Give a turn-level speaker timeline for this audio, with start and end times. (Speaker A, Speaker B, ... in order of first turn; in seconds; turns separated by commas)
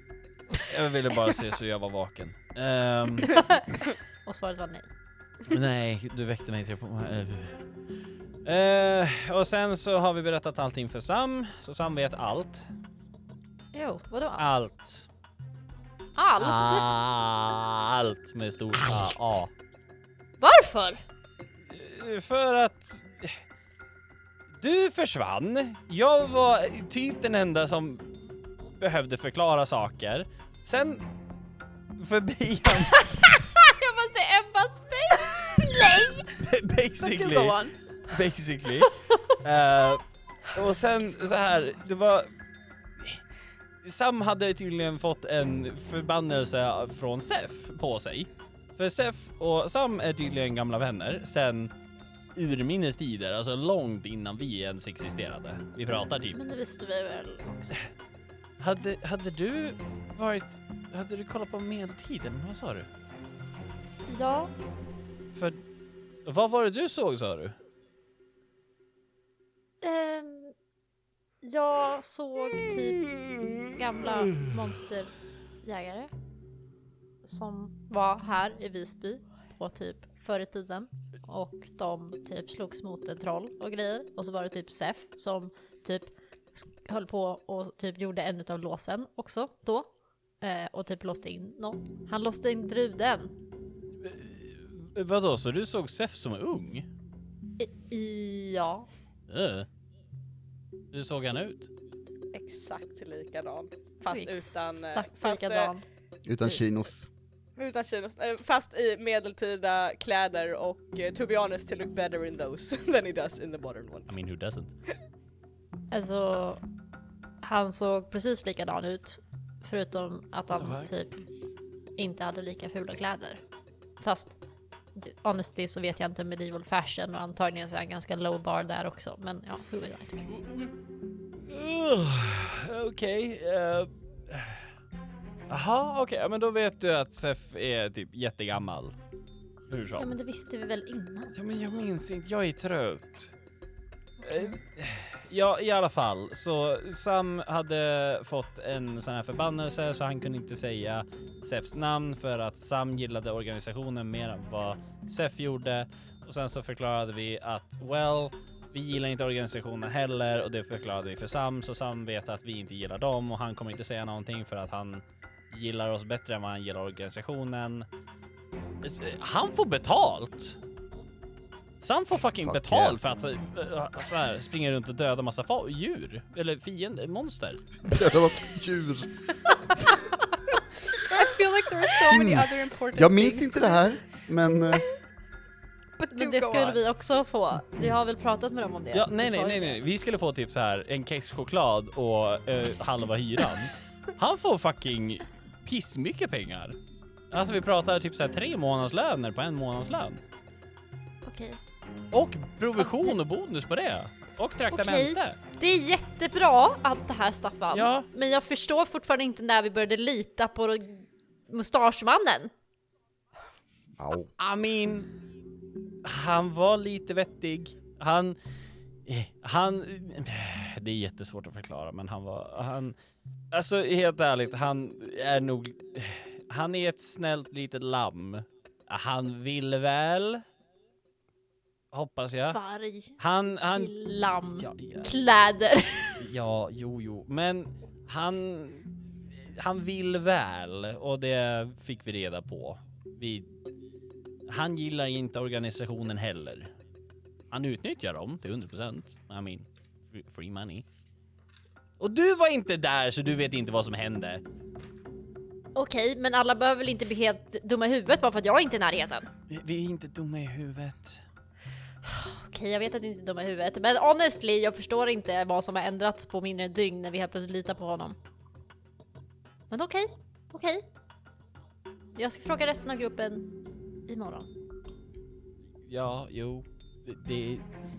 Speaker A: 0.6-3.4, Speaker B: 4.2-4.9, Speaker A: 5.5-7.7, Speaker A: 8.4-12.7, Speaker B: 13.7-14.5, Speaker A: 14.4-15.1, Speaker B: 16.2-16.9, Speaker A: 16.4-19.5, Speaker B: 20.4-21.0, Speaker A: 21.7-23.4, Speaker A: 24.6-28.1, Speaker A: 28.8-31.1, Speaker A: 32.0-33.2, Speaker B: 33.6-35.4, Speaker A: 35.7-42.3, Speaker C: 35.8-36.2, Speaker C: 37.0-38.0, Speaker A: 43.8-51.7, Speaker A: 52.4-56.4, Speaker B: 56.3-57.8, Speaker A: 58.6-62.9, Speaker B: 64.1-64.5, Speaker A: 65.3-65.6, Speaker A: 66.2-67.6, Speaker B: 69.8-70.5, Speaker B: 71.4-76.1, Speaker B: 77.2-93.3, Speaker A: 94.0-96.9, Speaker B: 97.6-98.9, Speaker A: 99.3-99.7, Speaker A: 100.9-101.7, Speaker D: 102.3-105.7, Speaker B: 104.1-105.9, Speaker E: 106.2-107.1, Speaker D: 107.6-114.2, Speaker A: 114.1-114.7, Speaker B: 115.9-116.6, Speaker B: 117.4-121.3, Speaker A: 120.5-120.9, Speaker B: 122.0-123.4, Speaker B: 124.0-124.4, Speaker B: 124.9-130.3, Speaker A: 130.3-130.7, Speaker A: 131.5-134.7, Speaker A: 135.5-138.9, Speaker A: 139.7-140.1, Speaker B: 140.0-141.4, Speaker A: 141.3-143.4, Speaker B: 144.2-144.6, Speaker A: 144.2-167.9, Speaker A: 168.8-170.6, Speaker A: 171.8-177.7, Speaker E: 172.4-173.0, Speaker E: 177.9-179.3, Speaker C: 181.1-183.9, Speaker E: 182.1-184.9, Speaker C: 186.0-186.8, Speaker B: 186.1-189.8, Speaker A: 188.9-196.8, Speaker A: 197.3-200.2, Speaker B: 201.2-201.6, Speaker A: 202.1-205.4, Speaker B: 202.8-203.2, Speaker B: 204.7-212.5, Speaker A: 207.7-208.1, Speaker E: 214.0-214.3, Speaker A: 214.4-215.1, Speaker A: 216.0-218.4, Speaker A: 219.1-223.0, Speaker A: 223.5-230.4, Speaker A: 231.9-232.6, Speaker B: 232.5-233.2, Speaker A: 233.2-233.9, Speaker B: 233.8-236.2, Speaker A: 234.5-235.2, Speaker A: 236.2-243.5, Speaker A: 244.5-246.7, Speaker A: 247.5-250.8, Speaker A: 252.0-254.4, Speaker B: 255.8-259.3, Speaker A: 259.5-261.2, Speaker B: 262.4-268.2, Speaker B: 269.7-270.9, Speaker B: 272.2-273.5, Speaker B: 274.1-274.5, Speaker A: 275.9-277.7